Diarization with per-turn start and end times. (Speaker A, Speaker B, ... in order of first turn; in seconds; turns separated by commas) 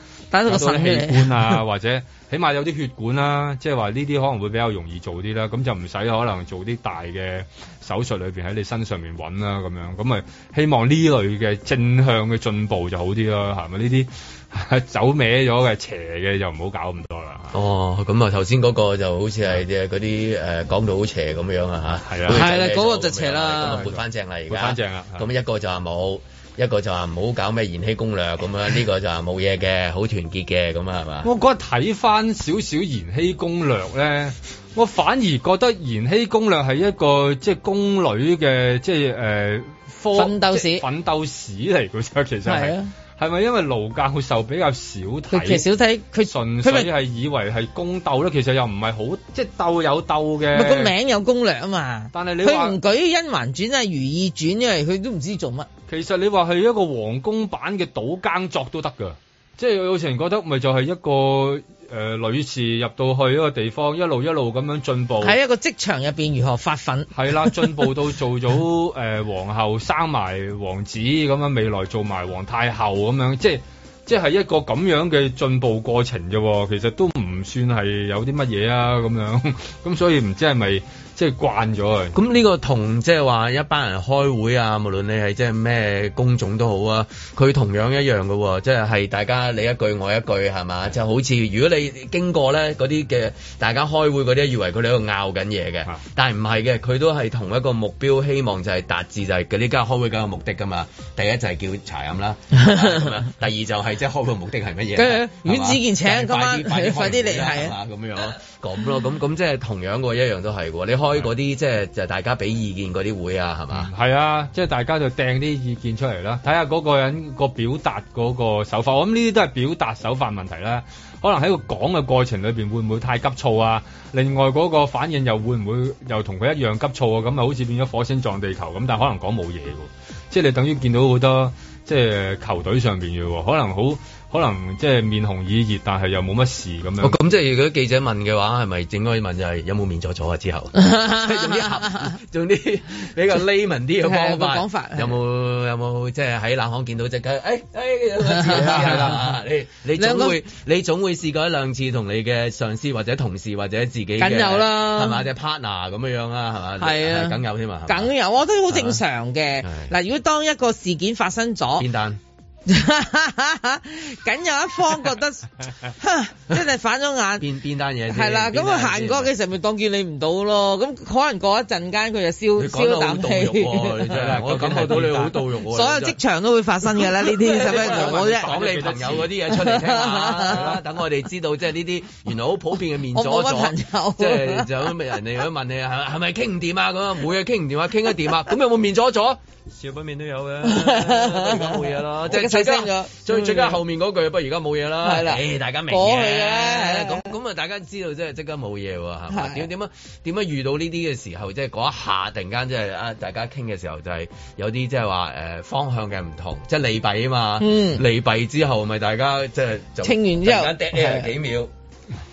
Speaker A: 0.3-1.6, Speaker B: 0.5-17.6, Speaker C: 17.5-31.3, Speaker B: 22.0-22.5, Speaker A: 22.3-23.9, Speaker B: 23.6-25.3, Speaker B: 31.2-45.7, Speaker A: 40.1-40.8, Speaker A: 42.4-42.9, Speaker A: 45.3-46.9, Speaker B: 46.2-50.9, Speaker A: 50.5-55.7, Speaker B: 52.1-52.8, Speaker B: 55.9-65.4, Speaker A: 65.2-67.8, Speaker B: 67.1-82.2, Speaker C: 82.1-113.9, Speaker A: 102.5-103.0, Speaker A: 104.9-107.7, Speaker B: 113.7-137.2, Speaker C: 137.0-158.1, Speaker A: 140.8-142.1, Speaker A: 144.0-145.2, Speaker A: 148.3-149.2, Speaker B: 148.5-149.2, Speaker A: 149.9-150.4, Speaker A: 154.2-155.2, Speaker A: 156.8-161.8, Speaker C: 158.7-159.0, Speaker C: 159.6-159.9, Speaker C: 161.8-162.2, Speaker A: 162.7-167.4, Speaker C: 167.4-169.3, Speaker A: 168.1-174.2, Speaker C: 172.6-176.2, Speaker B: 174.1-175.5, Speaker A: 175.7-178.5, Speaker C: 177.2-211.7, Speaker B: 177.5-179.3, Speaker A: 179.5-180.6, Speaker B: 180.5-180.8, Speaker A: 183.1-184.7, Speaker A: 190.6-193.8, Speaker A: 195.0-197.3, Speaker A: 199.3-199.7, Speaker A: 207.6-208.0, Speaker A: 210.0-211.3